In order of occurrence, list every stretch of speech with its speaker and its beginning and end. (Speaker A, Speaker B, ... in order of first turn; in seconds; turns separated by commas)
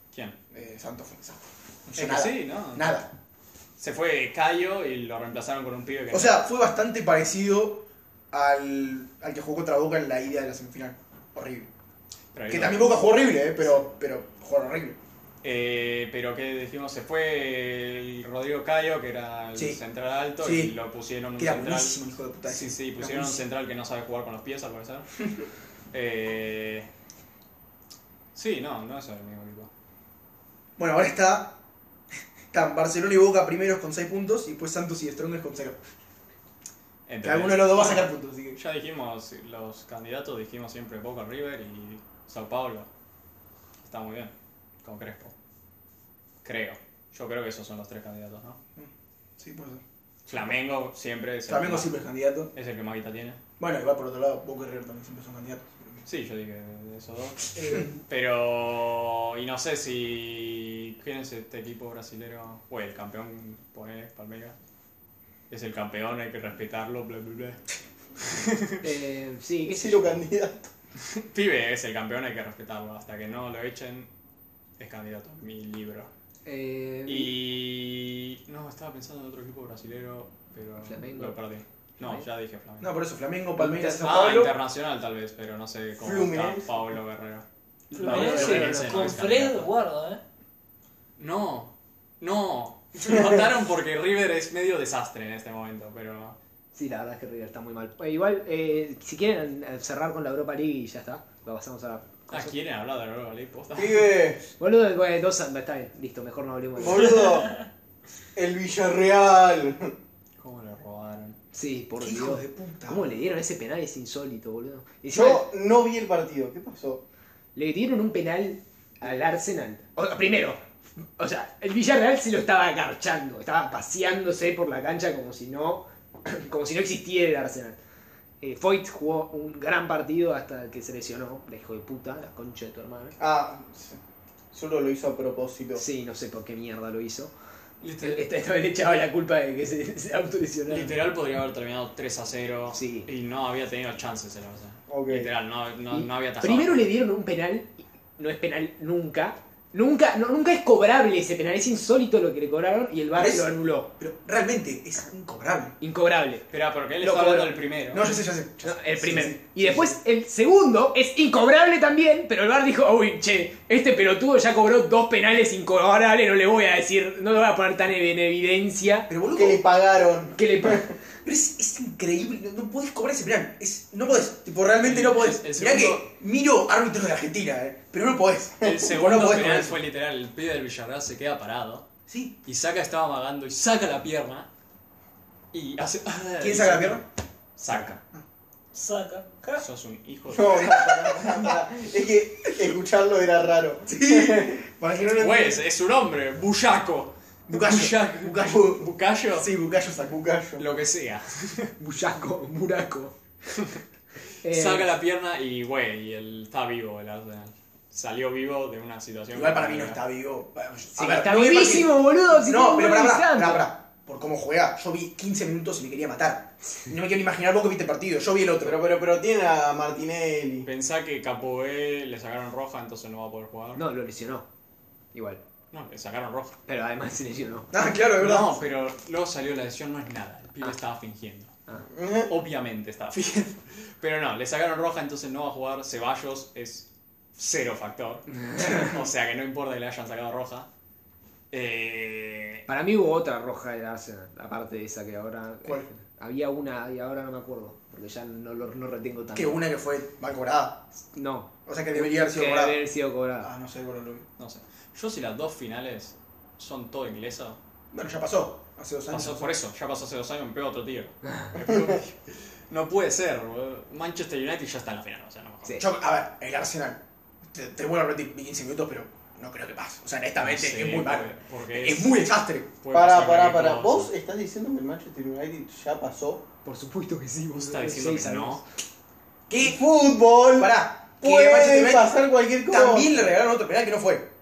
Speaker A: 0.5-3.1, Speaker B: 1.9-2.9, Speaker B: 3.8-6.4, Speaker A: 6.1-11.7, Speaker B: 12.3-12.9, Speaker A: 12.5-15.0, Speaker B: 15.4-21.9, Speaker A: 20.4-20.7, Speaker A: 21.4-23.4, Speaker B: 22.5-25.1, Speaker B: 25.9-26.9, Speaker B: 28.3-29.7, Speaker A: 30.8-31.6, Speaker A: 32.5-35.8, Speaker B: 37.1-42.9, Speaker A: 37.2-38.6, Speaker B: 43.8-45.3, Speaker B: 46.4-48.6, Speaker A: 48.8-49.8, Speaker B: 50.2-51.9, Speaker A: 51.5-52.5, Speaker B: 52.5-53.4, Speaker A: 53.6-56.0, Speaker B: 56.0-64.5, Speaker C: 57.5-58.0, Speaker B: 65.5-67.6, Speaker B: 68.2-68.8, Speaker C: 68.8-70.2, Speaker D: 69.6-70.7, Speaker B: 71.1-74.1, Speaker B: 74.8-76.1, Speaker C: 76.5-77.3, Speaker B: 77.0-82.9, Speaker C: 80.8-81.4, Speaker A: 82.8-84.5, Speaker C: 83.6-84.2, Speaker B: 84.0-89.7, Speaker D: 86.0-86.8, Speaker C: 87.9-89.1, Speaker E: 87.9-90.2, Speaker B: 91.2-96.4, Speaker C: 96.7-102.5, Speaker B: 102.3-104.1, Speaker D: 103.7-104.4, Speaker C: 104.6-107.3, Speaker D: 106.8-107.6, Speaker D: 108.3-109.9, Speaker B: 110.4-111.4, Speaker C: 111.5-115.5, Speaker A: 112.0-113.0, Speaker D: 115.1-117.0, Speaker C: 117.5-120.6, Speaker C: 121.2-127.8, Speaker C: 128.4-133.1, Speaker D: 133.2-134.0, Speaker D: 134.5-135.8, Speaker C: 135.8-137.3, Speaker B: 137.8-138.2, Speaker C: 138.0-140.9, Speaker B: 140.7-146.9, Speaker C: 142.7-143.1, Speaker D: 144.9-145.3, Speaker C: 145.9-153.9, Speaker A: 153.1-155.8, Speaker C: 155.8-156.5, Speaker B: 156.5-158.1, Speaker C: 157.0-157.6, Speaker A: 157.9-159.9, Speaker C: 158.6-169.1, Speaker A: 169.1-169.6, Speaker D: 169.3-170.9, Speaker C: 170.3-170.9, Speaker A: 171.2-179.8, Speaker B: 174.8-176.1, Speaker B: 178.6-181.8, Speaker A: 182.1-182.4, Speaker B: 182.4-184.5, Speaker B: 185.5-187.0, Speaker A: 186.4-187.0, Speaker B: 187.6-188.0, Speaker E: 188.7-189.6, Speaker B: 189.6-190.8, Speaker D: 190.3-194.6, Speaker A: 190.8-191.5, Speaker A: 193.8-195.6, Speaker B: 195.2-199.5, Speaker A: 197.5-200.6, Speaker D: 200.2-200.6, Speaker B: 200.6-201.7, Speaker C: 201.8-203.2, Speaker C: 204.4-204.9, Speaker B: 204.5-210.0, Speaker A: 209.3-218.8, Speaker C: 210.9-213.7, Speaker D: 218.6-220.7, Speaker B: 220.6-223.8, Speaker C: 223.8-224.4, Speaker C: 225.1-225.4, Speaker B: 225.7-226.6, Speaker C: 226.7-227.7, Speaker A: 227.7-228.6, Speaker B: 228.2-231.6, Speaker D: 231.9-232.3, Speaker B: 232.2-240.7, Speaker C: 238.4-238.9, Speaker B: 241.5-242.6, Speaker C: 242.7-249.6, Speaker A: 245.6-245.9, Speaker A: 249.3-250.9, Speaker C: 251.1-253.5, Speaker A: 251.7-252.8, Speaker A: 253.4-254.3, Speaker B: 254.4-257.6, Speaker A: 257.9-259.5, Speaker B: 259.1-265.8, Speaker A: 265.8-272.7, Speaker B: 270.4-274.1, Speaker D: 272.9-276.4, Speaker C: 276.6-278.6, Speaker B: 277.5-278.6, Speaker A: 279.5-279.8, Speaker D: 279.6-283.2, Speaker A: 280.6-284.3